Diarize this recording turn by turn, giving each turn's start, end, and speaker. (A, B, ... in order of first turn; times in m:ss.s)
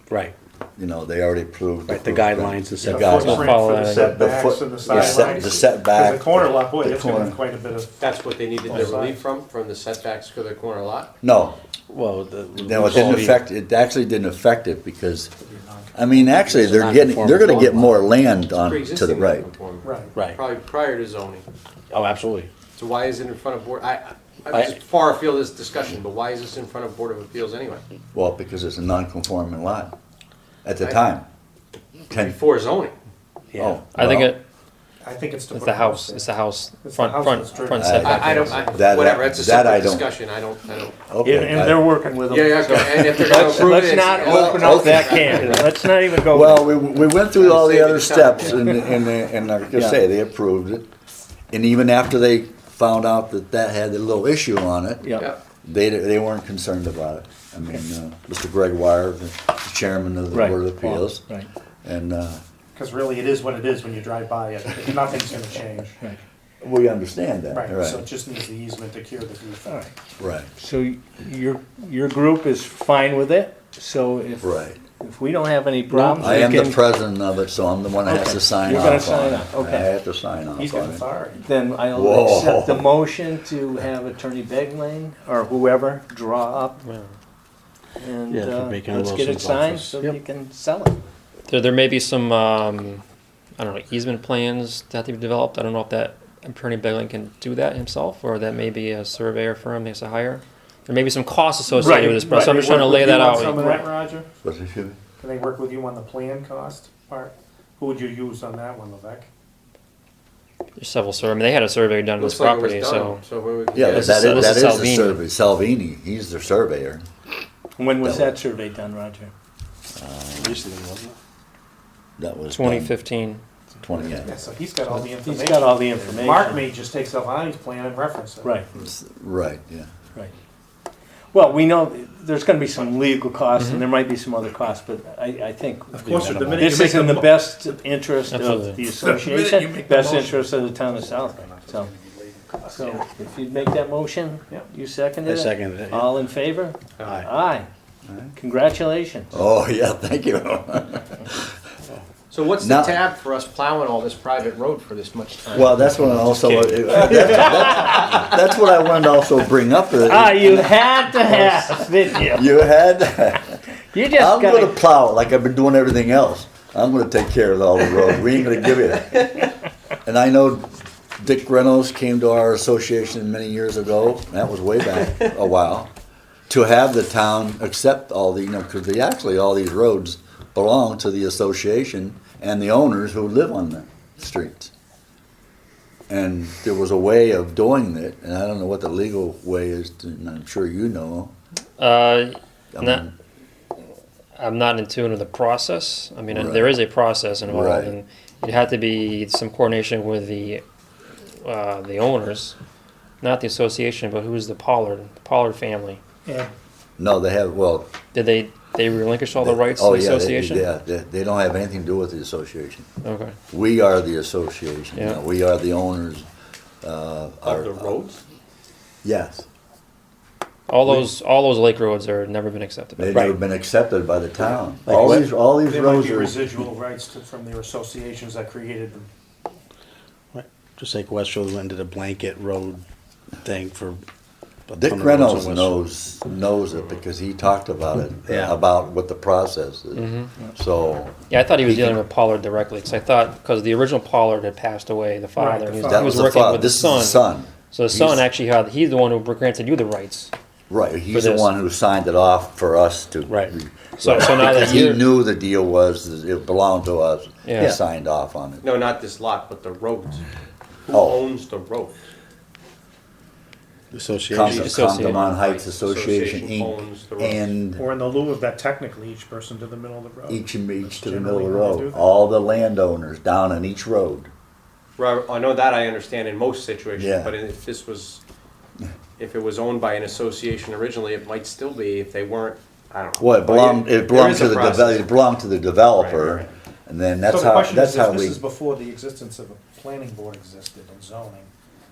0:00.1-0:00.3 A
0:00.8-0:07.4 B
0:01.9-0:03.5 A
0:02.8-0:08.1 C
0:03.1-0:04.1 D
0:04.9-0:05.3 A
0:08.0-0:11.1 E
0:08.6-0:09.2 C
0:11.2-0:11.6 B
0:11.9-0:13.4 A
0:12.6-0:15.3 B
0:13.0-0:13.2 E
0:15.4-0:16.1 C
0:15.9-0:19.5 B
0:16.4-0:18.0 A
0:18.5-0:21.4 E
0:19.8-0:20.1 C
0:20.1-0:20.4 A
0:21.9-0:22.5 A
0:22.8-0:27.8 E
0:24.5-0:24.8 A
0:28.1-0:29.9 B
0:30.6-0:31.3 B
0:32.1-0:32.4 B
0:32.1-0:32.9 E
0:33.6-0:34.4 B
0:33.9-0:34.4 D
0:35.0-0:38.9 C
0:35.5-0:38.6 D
0:37.7-0:40.1 B
0:38.0-0:41.0 E
0:41.1-0:41.9 B
0:41.2-0:47.1 F
0:42.3-0:45.8 E
0:44.2-0:45.6 B
0:46.1-0:50.9 B
0:47.4-0:48.8 E
0:49.7-0:50.0 F
0:51.5-0:55.0 B
0:55.0-0:55.3 F
0:55.6-1:01.2 B
1:00.3-1:01.5 F
1:01.8-1:02.4 B
1:02.7-1:06.0 C
1:06.6-1:08.0 B
1:07.5-1:09.8 C
1:09.6-1:09.9 F
1:10.2-1:10.5 B
1:10.6-1:16.9 F
1:14.4-1:14.8 B
1:15.9-1:21.0 B
1:18.0-1:19.9 F
1:20.6-1:21.4 C
1:21.4-1:26.8 F
1:21.9-1:23.0 B
1:26.8-1:27.1 D
1:28.0-1:31.0 F
1:28.3-1:30.2 A
1:31.5-1:33.0 D
1:33.6-1:43.7 D
1:41.7-1:44.3 C
1:42.3-1:43.8 F
1:44.4-1:45.0 B
1:45.2-1:49.3 C
1:50.8-1:53.2 D
1:52.2-1:54.8 E
1:53.7-1:57.0 B
1:53.8-1:55.2 D
1:57.8-1:59.3 F
1:58.0-1:58.4 B
1:59.9-2:00.6 B
2:00.3-2:01.2 A
2:02.2-2:02.9 B
2:02.5-2:03.4 D
2:03.8-2:04.3 B
2:04.2-2:08.5 C
2:04.9-2:06.6 F
2:08.4-2:08.7 F
2:08.8-2:09.9 B
2:11.3-2:21.9 F
2:13.6-2:13.8 D
2:15.9-2:17.4 C
2:18.3-2:18.8 D
2:19.0-2:20.4 C
2:21.2-2:21.7 C
2:22.7-2:27.7 F
2:25.2-2:26.1 A
2:27.0-2:27.3 E
2:28.3-2:29.4 F
2:29.3-2:31.4 B
2:32.3-2:35.9 E
2:32.6-2:33.0 B
2:35.5-2:49.5 B
2:36.0-2:38.0 F
2:40.0-2:42.7 F
2:43.9-2:44.8 F
2:50.0-2:55.9 B
2:56.5-3:04.7 B
3:06.1-3:11.3 B
3:11.8-3:13.1 D
3:12.7-3:13.1 B
3:14.4-3:20.6 D
3:16.3-3:16.8 B
3:17.4-3:18.0 B
3:21.4-3:22.5 D
3:23.2-3:26.0 D
3:27.0-3:27.9 B
3:28.1-3:30.7 D
3:29.4-3:32.8 B
3:33.0-3:33.3 D
3:33.5-3:36.2 B
3:34.9-3:35.2 D
3:36.8-3:38.0 B
3:37.4-3:38.2 E
3:39.0-3:39.4 B
3:40.7-3:43.2 D
3:43.0-3:46.4 B
3:43.1-3:43.4 A
3:44.8-3:45.3 A
3:44.9-3:49.1 C
3:50.3-3:52.8 A
3:53.4-3:54.0 A
3:54.7-3:55.8 A
3:54.8-4:02.0 B
3:58.3-3:58.6 A
4:00.0-4:00.3 D
4:01.3-4:10.3 D
4:05.4-4:06.2 C
4:05.8-4:08.2 B
4:10.7-4:18.6 B
4:11.1-4:11.5 D
4:13.3-4:13.5 A
4:14.0-4:15.0 D
4:17.4-4:17.8 D
4:18.6-4:20.2 E
4:20.8-4:21.9 E
4:20.9-4:21.2 B
4:23.9-4:24.8 A
4:24.3-4:27.8 B
4:24.5-4:25.2 D
4:24.9-4:27.6 E
4:27.8-4:32.1 C
4:30.3-4:34.3 B
4:35.0-4:38.2 E
4:37.0-4:37.4 B
4:39.2-4:45.1 E
4:43.2-4:48.4 B
4:45.9-4:46.5 E
4:47.3-4:51.5 C